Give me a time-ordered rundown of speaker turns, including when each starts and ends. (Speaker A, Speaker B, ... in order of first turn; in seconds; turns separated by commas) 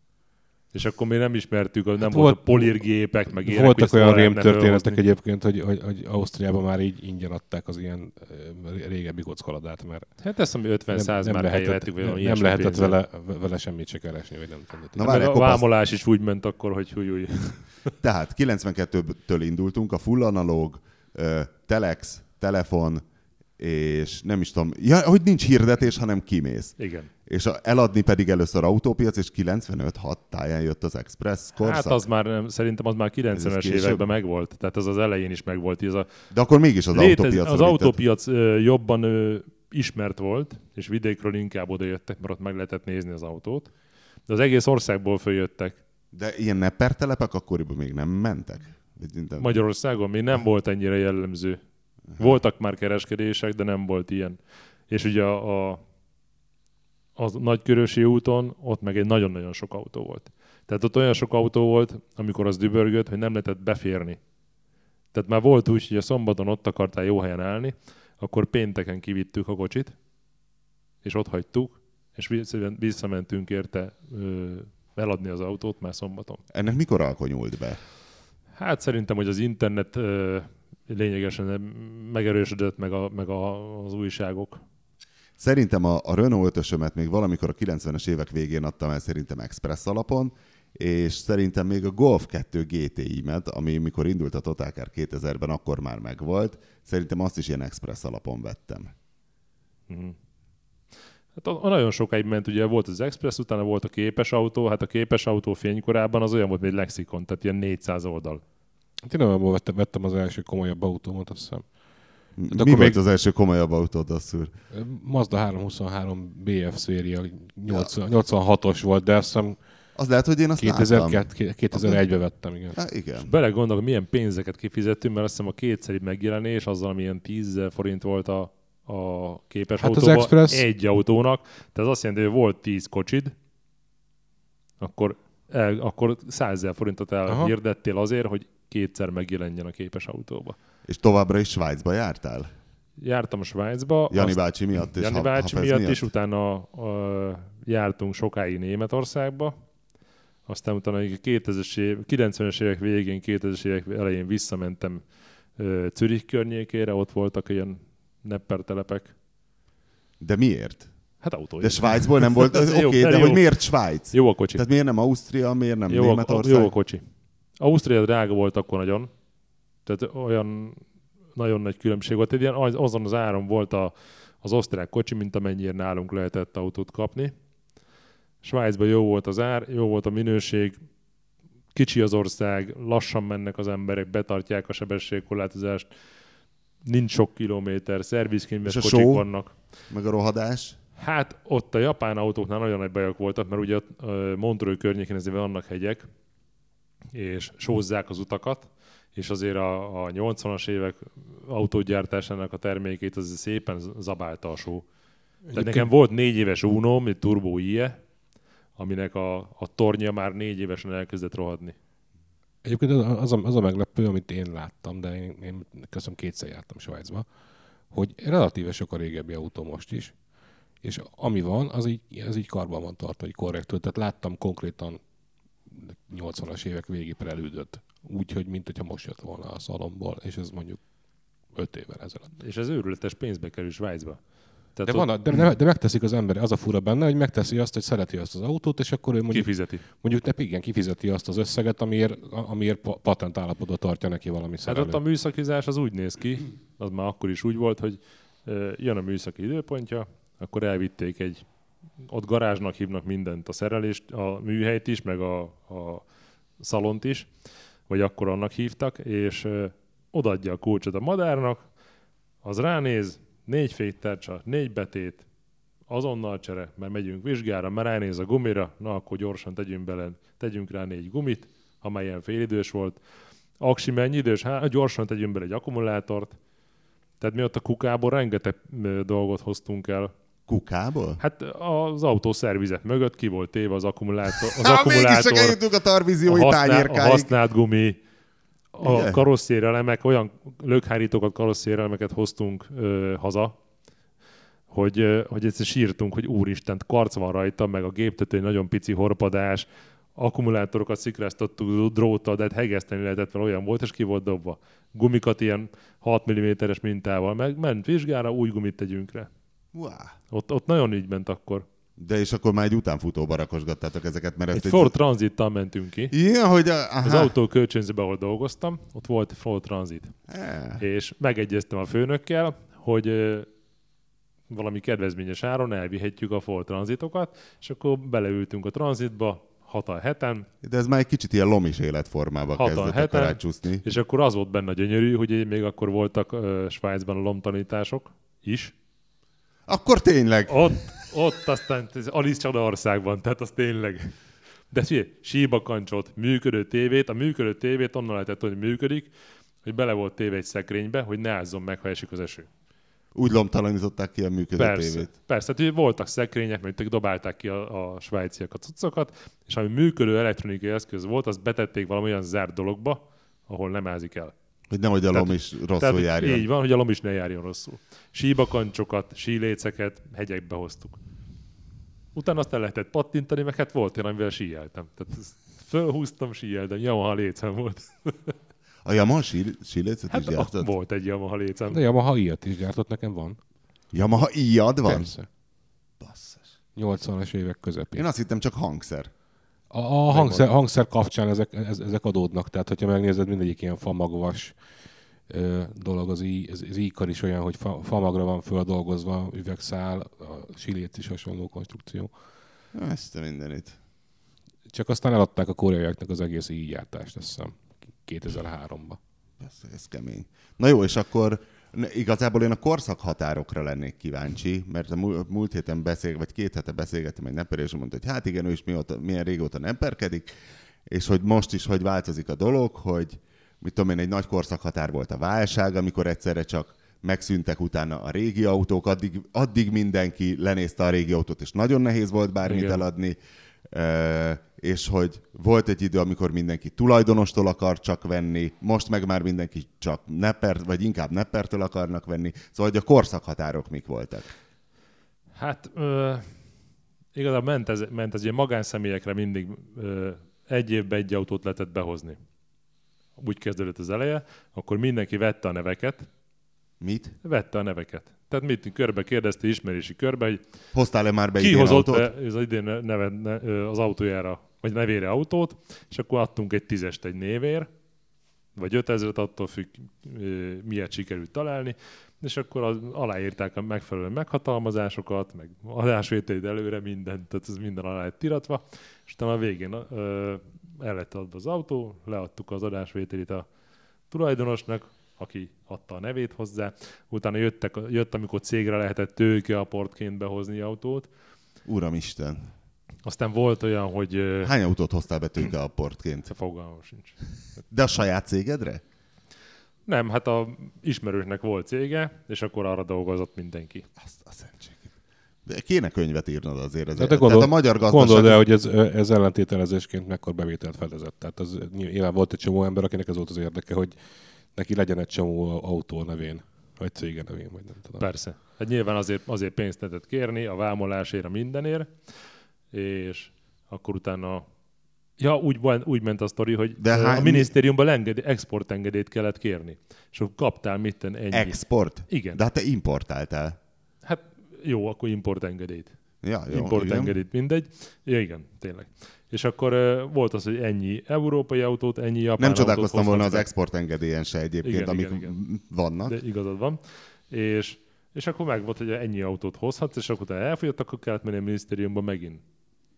Speaker A: 0.7-5.0, Speaker B: 2.0-10.2, Speaker A: 10.2-13.0, Speaker B: 10.9-15.3, Speaker C: 14.9-15.7, Speaker A: 15.0-17.7, Speaker C: 18.0-23.0, Speaker C: 23.6-32.0, Speaker A: 26.8-27.1, Speaker A: 31.6-36.1, Speaker C: 33.4-34.0, Speaker C: 36.3-38.0, Speaker A: 36.9-43.7, Speaker A: 44.3-45.8, Speaker C: 46.1-49.6, Speaker A: 49.4-51.6, Speaker A: 52.2-55.8, Speaker A: 57.2-64.2, Speaker A: 65.1-70.0, Speaker A: 71.0-76.4, Speaker C: 76.5-77.8, Speaker A: 78.6-84.6, Speaker C: 85.4-98.9, Speaker A: 99.9-100.2, Speaker A: 101.4-108.4, Speaker B: 109.0-111.7, Speaker C: 112.4-114.5, Speaker B: 112.5-113.0, Speaker B: 114.7-119.6, Speaker C: 120.0-122.0, Speaker B: 120.6-122.8, Speaker C: 122.8-123.3, Speaker A: 123.2-133.3, Speaker B: 129.8-130.6, Speaker A: 134.8-140.6, Speaker C: 140.9-142.5, Speaker A: 143.0-149.6, Speaker C: 144.1-146.1, Speaker A: 150.5-159.1, Speaker C: 160.2-160.9, Speaker A: 161.2-163.5, Speaker C: 161.6-166.7, Speaker A: 164.1-164.6, Speaker A: 165.9-167.0, Speaker A: 167.6-169.1, Speaker A: 169.8-170.8, Speaker A: 171.3-177.3, Speaker A: 178.4-180.8, Speaker A: 181.7-185.9, Speaker A: 186.8-189.5, Speaker C: 188.7-189.3, Speaker C: 189.9-190.8, Speaker A: 191.0-196.1, Speaker A: 197.1-204.8, Speaker B: 205.5-205.9, Speaker A: 205.5-208.0, Speaker A: 208.8-211.8, Speaker B: 212.6-217.2, Speaker B: 217.9-220.1, Speaker B: 220.8-225.0, Speaker B: 225.7-230.8, Speaker B: 231.5-232.3, Speaker A: 232.4-234.2, Speaker A: 234.8-235.1, Speaker B: 234.9-245.0, Speaker A: 239.3-239.8, Speaker A: 244.7-251.4, Speaker A: 252.0-256.1, Speaker A: 256.6-257.3, Speaker A: 257.9-261.7, Speaker A: 262.4-265.2, Speaker A: 265.9-273.0, Speaker A: 273.6-276.4, Speaker A: 277.2-280.1, Speaker C: 280.5-281.2, Speaker A: 281.2-285.6, Speaker C: 284.4-287.3, Speaker A: 286.2-288.0, Speaker A: 288.7-293.6, Speaker C: 288.8-289.2, Speaker A: 294.7-309.3, Speaker C: 309.7-310.1, Speaker A: 310.3-311.6, Speaker C: 312.0-314.9, Speaker A: 314.5-316.1, Speaker C: 316.1-317.3, Speaker A: 317.0-320.1, Speaker C: 320.3-320.8, Speaker A: 320.8-323.5, Speaker A: 324.5-330.5, Speaker C: 330.6-333.8, Speaker A: 332.6-338.7, Speaker C: 339.7-341.1, Speaker A: 340.5-344.1, Speaker A: 344.7-349.1, Speaker A: 349.6-352.5, Speaker C: 353.1-355.1, Speaker A: 354.6-364.3, Speaker C: 364.7-366.5, Speaker A: 365.1-371.0, Speaker A: 372.1-378.4, Speaker C: 378.8-380.7, Speaker A: 380.1-381.8, Speaker B: 381.7-383.4, Speaker C: 383.9-385.1, Speaker B: 384.8-385.3, Speaker C: 386.0-386.5, Speaker B: 386.8-388.1, Speaker C: 387.9-389.1, Speaker B: 389.7-394.6, Speaker C: 390.1-390.5, Speaker B: 395.3-402.1, Speaker C: 402.7-403.8, Speaker B: 404.7-409.0, Speaker C: 409.4-420.3, Speaker C: 420.9-433.2, Speaker A: 432.5-432.8, Speaker C: 433.7-444.3, Speaker A: 445.4-446.3, Speaker A: 447.1-452.2, Speaker A: 453.2-456.1, Speaker C: 456.8-457.1, Speaker A: 457.2-460.4, Speaker C: 460.7-462.1, Speaker A: 461.4-467.7, Speaker A: 468.6-483.5, Speaker A: 484.1-491.1, Speaker C: 491.6-492.5, Speaker A: 493.1-494.5, Speaker C: 494.4-496.3, Speaker A: 496.3-497.2, Speaker C: 497.7-498.8, Speaker A: 499.9-503.9, Speaker C: 504.0-504.9, Speaker C: 505.4-508.4, Speaker B: 507.0-513.9, Speaker B: 514.5-518.1, Speaker A: 518.0-522.0, Speaker A: 522.7-524.5, Speaker A: 525.2-532.4, Speaker C: 526.8-527.5, Speaker C: 531.3-533.6, Speaker A: 534.0-535.9, Speaker C: 536.2-537.2, Speaker A: 536.5-543.5, Speaker C: 542.4-546.2, Speaker A: 544.6-545.4, Speaker A: 546.1-552.4